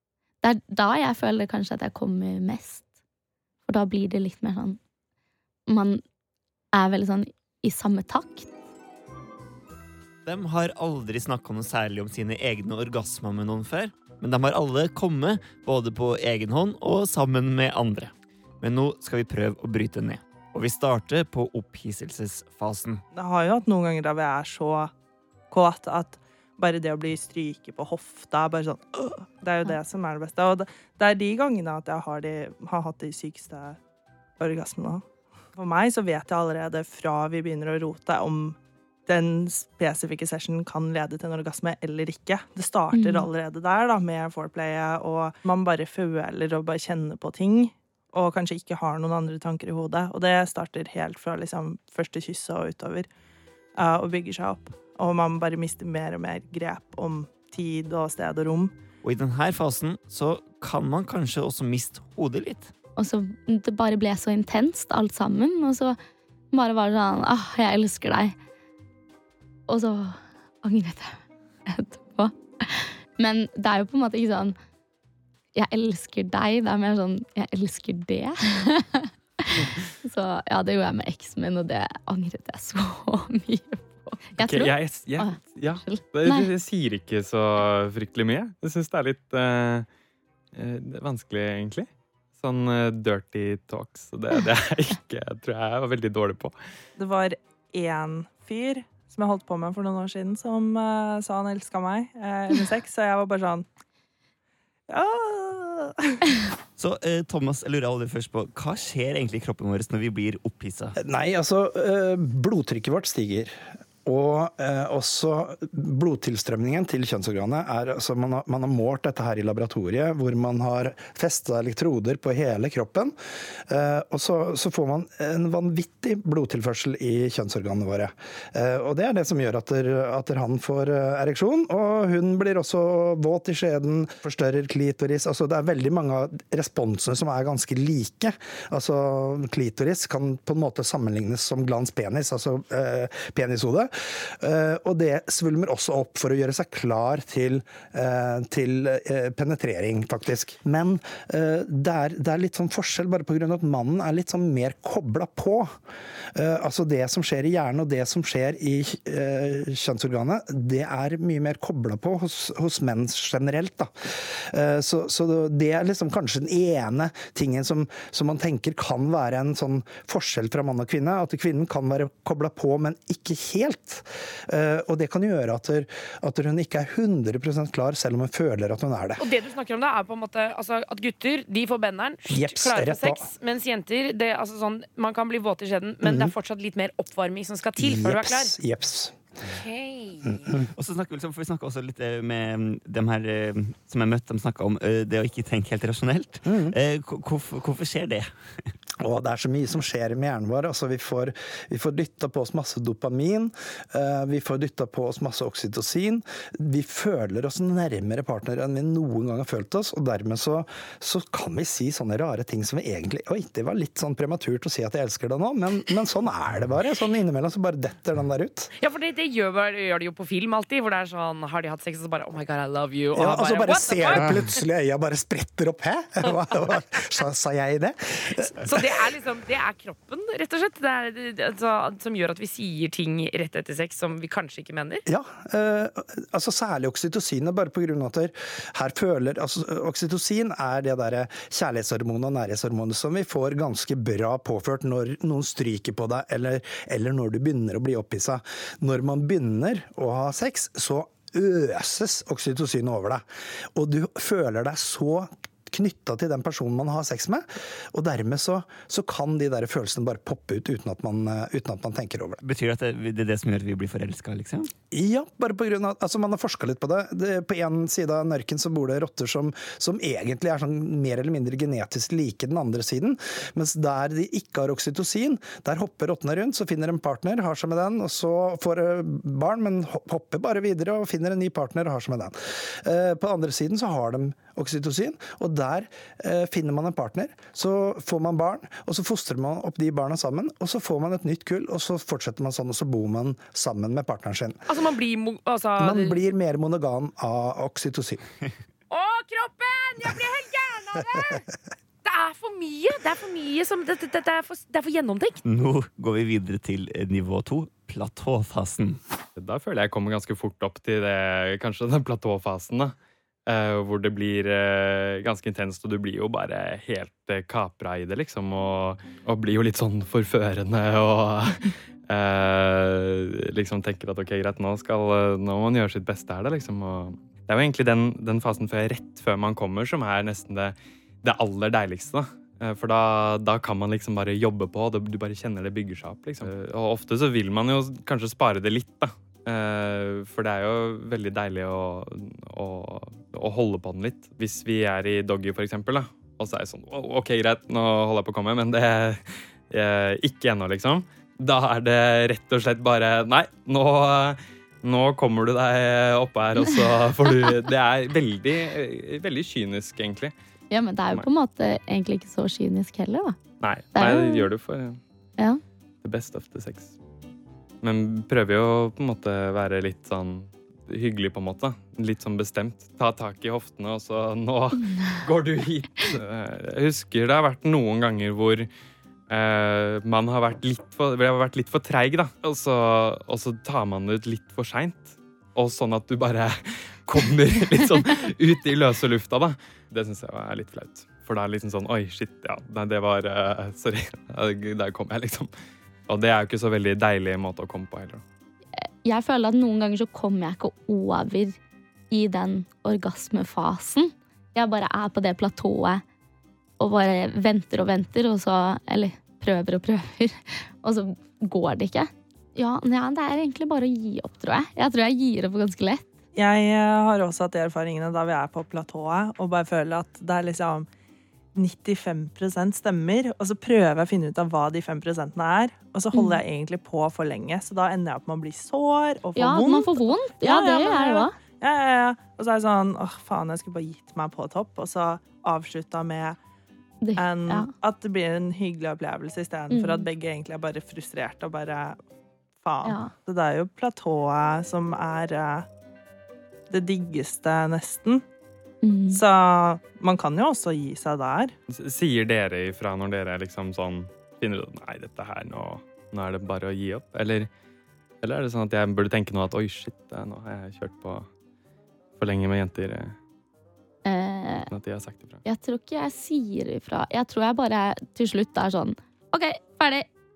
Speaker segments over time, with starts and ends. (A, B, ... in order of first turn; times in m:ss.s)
0:00.4-0:02.8 A
0:03.7-0:04.8 A
0:05.7-0:06.0 A
0:06.7-0:08.5 A
0:10.2-0:23.0 B
0:23.1-0:24.9 C
0:25.5-0:33.8 C
0:34.4-0:53.1 C
0:42.9-0:43.3 A
0:53.8-0:58.7 C
0:59.0-1:02.7 B
1:03.0-1:06.0 A
1:06.5-1:08.4 A
1:09.7-1:14.6 A
1:15.6-1:26.5 A
1:24.4-1:29.9 D
1:30.5-1:31.9 D
1:32.4-1:36.6 D
1:37.0-1:43.7 C
1:44.9-1:46.2 C
1:46.8-1:51.0 B
1:51.0-2:03.2 E
2:03.7-2:35.8 E
2:36.4-2:59.3 E
2:59.2-3:08.5 F
3:02.3-3:03.3 E
3:06.0-3:06.4 E
3:07.8-3:09.2 E
3:09.6-3:10.4 F
3:10.3-3:10.7 E
3:10.8-3:18.3 B
3:16.4-3:16.8 E
3:19.0-3:38.7 E
3:38.8-3:44.5 F
3:43.1-3:49.1 E
3:48.6-3:55.0 F
3:55.1-4:13.2 E
4:13.8-4:22.4 E
4:22.4-4:24.7 B
4:24.9-4:54.6 E
4:54.7-4:56.2 F
4:55.8-4:58.2 E
4:58.9-5:01.4 F
5:02.0-5:05.4 F
5:05.5-5:09.0 B
5:09.4-5:13.0 D
5:13.5-6:00.3 D
6:00.7-6:03.4 A
6:03.6-6:05.0 D
6:04.0-6:04.5 A
6:06.0-6:06.9 D
6:07.8-6:18.7 D
6:19.3-6:35.5 D
6:36.1-6:38.2 D
6:38.8-6:41.6 A
6:42.1-6:46.0 A
6:46.8-6:56.1 A
6:56.4-7:00.9 C
7:01.5-7:16.4 C
7:06.1-7:06.4 A
7:09.4-7:11.3 A
7:17.0-7:17.7 A
7:17.2-7:22.0 C
7:19.7-7:20.0 A
7:22.6-7:25.7 C
7:22.8-7:23.1 A
7:26.7-7:28.2 C
7:28.8-7:29.2 A
7:29.1-7:31.5 C
7:31.7-7:37.5 D
7:38.2-7:41.3 D
7:42.2-7:43.2 D
7:44.0-7:44.7 A
7:44.7-7:45.4 D
7:45.4-7:50.1 A